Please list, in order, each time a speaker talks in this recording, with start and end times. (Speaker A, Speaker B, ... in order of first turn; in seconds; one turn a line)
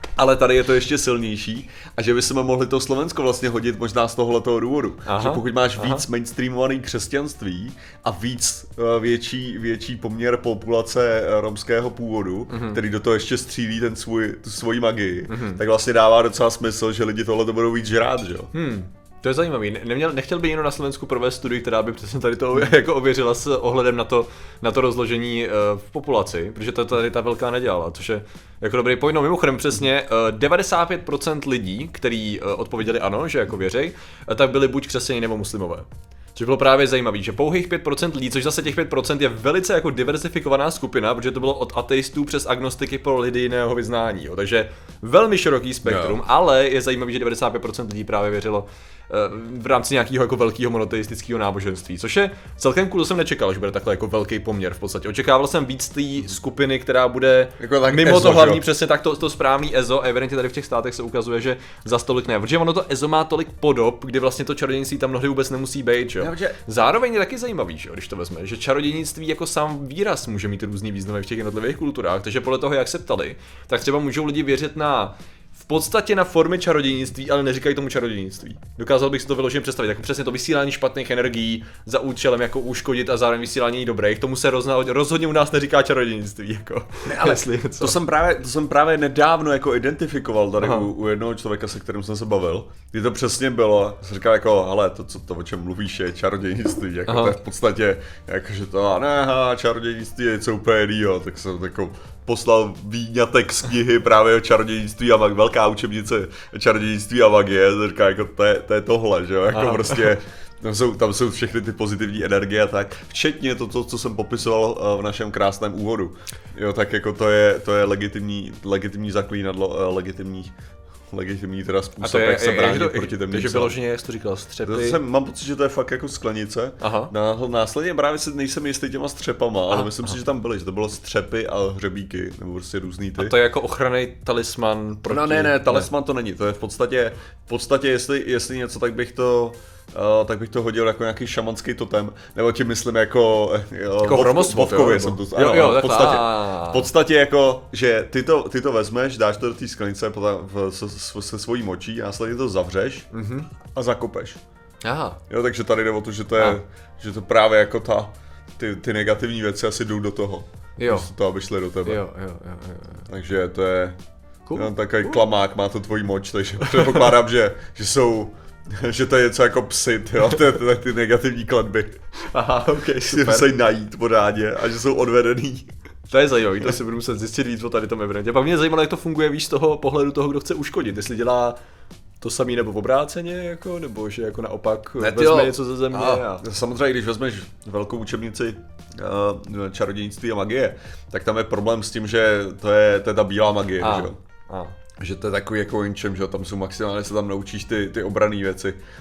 Speaker A: 0.1-18.5
Speaker B: 5.0-6.0
Speaker B: 12.5-12.8
Speaker B: 15.3-15.6
Speaker B: 18.5-88.0
Speaker A: 45.8-46.2
Speaker A: 57.6-58.6
Speaker A: 66.2-66.6
Speaker A: 87.0-120.5
Speaker B: 90.6-90.9
Speaker B: 97.1-97.3
Speaker B: 109.5-110.1
Speaker A: 121.1-123.8
Speaker B: 122.0-125.0
Speaker A: 124.6-133.3
Speaker B: 126.8-127.1
Speaker B: 129.7-130.1
Speaker B: 133.2-135.9
Speaker A: 135.1-153.1
Speaker B: 144.0-146.9
Speaker B: 153.1-153.5
Speaker A: 153.7-154.4
Speaker B: 154.8-155.2
Speaker A: 155.3-162.0
Speaker B: 160.8-161.1
Speaker B: 161.8-163.1
Speaker A: 163.1-163.9
Speaker B: 164.5-165.2
Speaker A: 164.5-171.9
Speaker B: 166.6-167.1
Speaker B: 172.3-173.5
Speaker A: 173.0-175.7
Speaker B: 176.1-181.6
Speaker B: 182.2-186.4
Speaker A: 185.0-194.2
Speaker B: 193.8-194.7
Speaker A: 195.0-198.8